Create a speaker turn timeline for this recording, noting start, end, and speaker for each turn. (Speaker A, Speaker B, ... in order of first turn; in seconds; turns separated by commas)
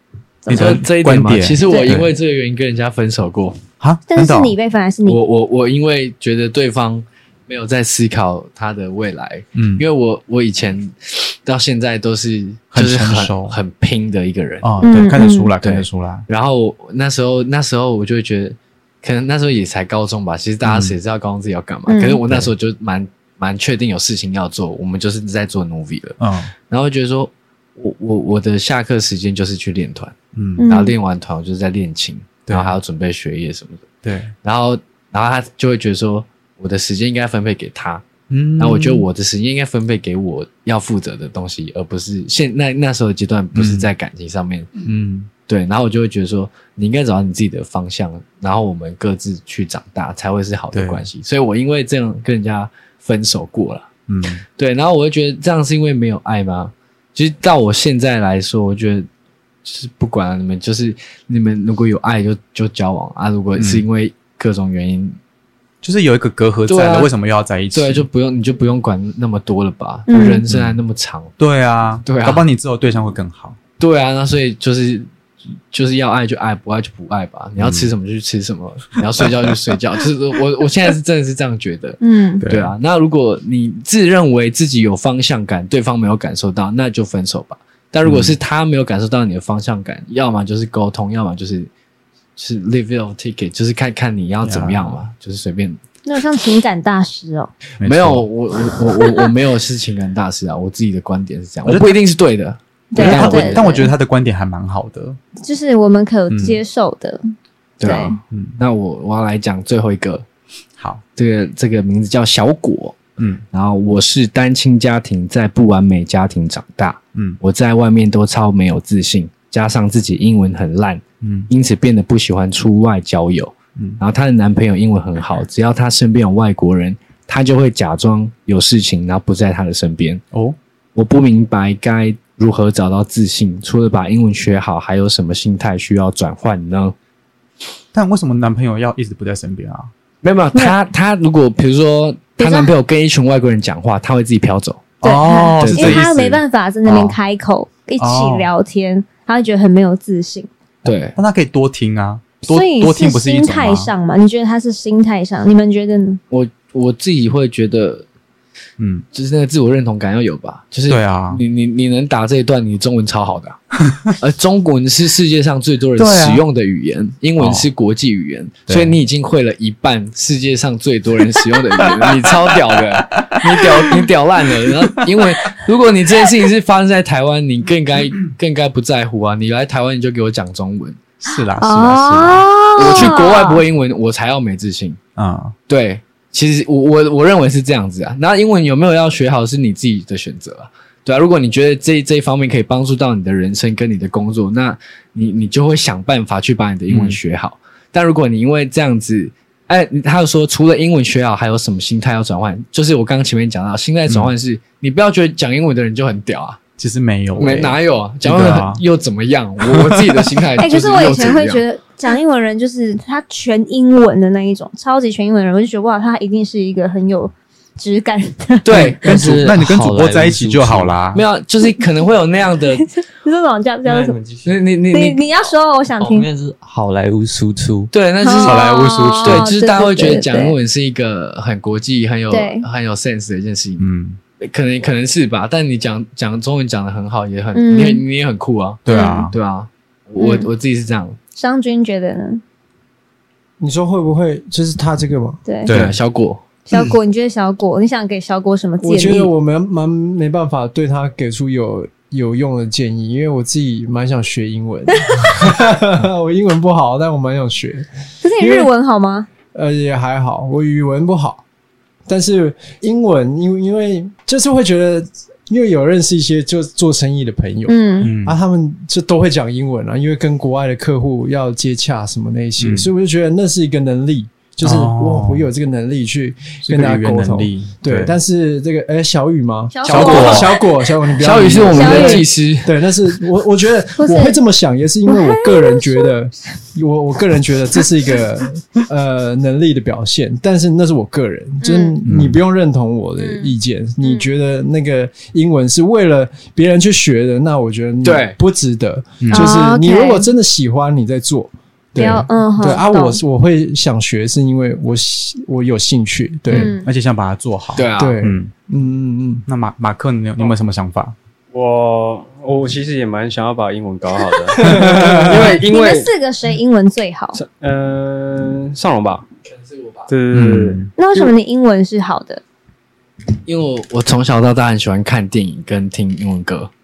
Speaker A: 0.4-0.8, Speaker B: 0.5-2.1, Speaker C: 0.5-3.7, Speaker A: 1.6-2.0, Speaker B: 3.8-4.5, Speaker A: 4.1-5.2, Speaker C: 5.0-14.8, Speaker B: 9.5-9.8, Speaker B: 12.7-13.6, Speaker B: 14.6-16.2, Speaker A: 14.8-15.5, Speaker C: 15.6-44.8, Speaker B: 20.6-20.9, Speaker A: 21.9-22.2, Speaker B: 26.2-26.5, Speaker B: 30.3-30.7, Speaker A: 30.6-30.9, Speaker B: 32.5-32.8, Speaker B: 34.0-34.3, Speaker B: 38.3-39.0, Speaker B: 43.5-43.9, Speaker B: 44.8-45.3, Speaker C: 45.5-53.9, Speaker B: 50.7-51.1, Speaker B: 54.1-54.4, Speaker C: 54.5-59.1, Speaker C: 59.6-65.2, Speaker B: 63.5-63.9, Speaker B: 65.8-68.0, Speaker C: 66.7-67.1, Speaker C: 67.7-71.3, Speaker A: 70.1-70.4, Speaker B: 70.5-70.8, Speaker B: 71.4-73.6, Speaker C: 72.0-72.4, Speaker C: 73.8-75.1, Speaker C: 75.7-91.7, Speaker B: 77.6-77.9, Speaker B: 79.2-79.7, Speaker A: 82.0-82.5, Speaker B: 82.4-82.7, Speaker B: 88.0-88.4, Speaker C: 92.4-95.8, Speaker B: 94.4-95.0, Speaker A: 96.0-97.5, Speaker B: 97.8-98.3, Speaker C: 97.8-103.8, Speaker A: 99.0-99.2, Speaker B: 101.6-102.0, Speaker A: 102.9-103.9, Speaker B: 102.9-105.2, Speaker A: 105.4-107.2, Speaker B: 106.3-106.6, Speaker C: 107.8-110.2, Speaker A: 107.8-108.2, Speaker B: 108.3-108.6, Speaker B: 110.8-111.0, Speaker C: 111.2-130.2, Speaker B: 113.2-113.4, Speaker B: 117.1-117.4, Speaker B: 121.2-121.5, Speaker B: 130.3-130.6, Speaker C: 130.9-136.9, Speaker B: 137.9-139.9, Speaker C: 140.2-144.9, Speaker A: 142.4-142.7, Speaker B: 145.0-147.2, Speaker A: 145.0-150.5, Speaker C: 145.6-146.1, Speaker B: 148.0-148.5, Speaker C: 150.8-151.2, Speaker B: 150.9-153.9, Speaker A: 152.4-156.2, Speaker C: 156.3-158.1, Speaker B: 158.8-159.1, Speaker C: 159.1-163.6, Speaker B: 160.9-161.4, Speaker C: 164.2-181.0, Speaker B: 165.9-166.4, Speaker B: 167.4-167.7, Speaker B: 168.7-169.0, Speaker B: 172.0-172.3, Speaker B: 173.1-173.7, Speaker B: 181.2-183.2, Speaker A: 181.3-183.6, Speaker C: 182.8-185.0, Speaker B: 185.2-185.5, Speaker C: 185.7-206.6, Speaker B: 196.9-197.2, Speaker B: 204.1-204.3, Speaker B: 206.8-208.8, Speaker C: 207.4-211.6, Speaker B: 209.6-210.4, Speaker A: 210.6-218.9, Speaker C: 218.6-219.5, Speaker B: 218.7-221.2, Speaker D: 219.0-220.9, Speaker C: 221.1-222.9, Speaker A: 222.9-224.2, Speaker D: 223.8-224.6, Speaker C: 224.4-225.2, Speaker A: 224.9-226.3, Speaker D: 226.0-227.9, Speaker C: 227.9-228.6, Speaker A: 228.2-230.6, Speaker B: 228.4-229.5, Speaker C: 229.2-233.9, Speaker A: 232.3-232.7, Speaker B: 233.8-234.2, Speaker C: 234.4-241.2, Speaker A: 237.5-238.0, Speaker B: 238.8-239.3, Speaker A: 238.9-239.3, Speaker A: 240.2-240.5, Speaker A: 241.3-242.4, Speaker E: 243.6-245.4, Speaker A: 245.4-245.7, Speaker B: 245.7-246.0, Speaker C: 245.7-246.4, Speaker A: 246.7-249.3, Speaker E: 248.8-258.7, Speaker A: 258.2-259.3, Speaker E: 259.5-261.4, Speaker E: 262.1-306.7, Speaker A: 267.7-268.1, Speaker B: 268.0-268.4, Speaker B: 272.6-272.9, Speaker B: 274.6-275.5, Speaker B: 276.6-278.1, Speaker A: 279.7-282.3, Speaker C: 279.9-280.4, Speaker B: 279.9-280.5, Speaker C: 281.2-282.7, Speaker A: 284.0-284.4, Speaker A: 285.1-286.1, Speaker A: 291.6-292.0, Speaker B: 292.0-292.4, Speaker A: 293.2-294.3, Speaker C: 298.0-298.4, Speaker B: 299.2-299.5, Speaker A: 299.3-300.3, Speaker A: 302.0-303.2, Speaker A: 306.5-306.9, Speaker B: 306.5-308.5, Speaker C: 307.7-308.2, Speaker E: 307.9-309.4, Speaker B: 309.5-311.1, Speaker F: 311.5-316.1, Speaker B: 314.6-315.3, Speaker A: 315.2-317.4, Speaker F: 317.3-319.2, Speaker C: 319.5-320.1, Speaker F: 320.1-321.3, Speaker B: 320.3-320.9, Speaker A: 321.0-322.4, Speaker C: 323.4-326.7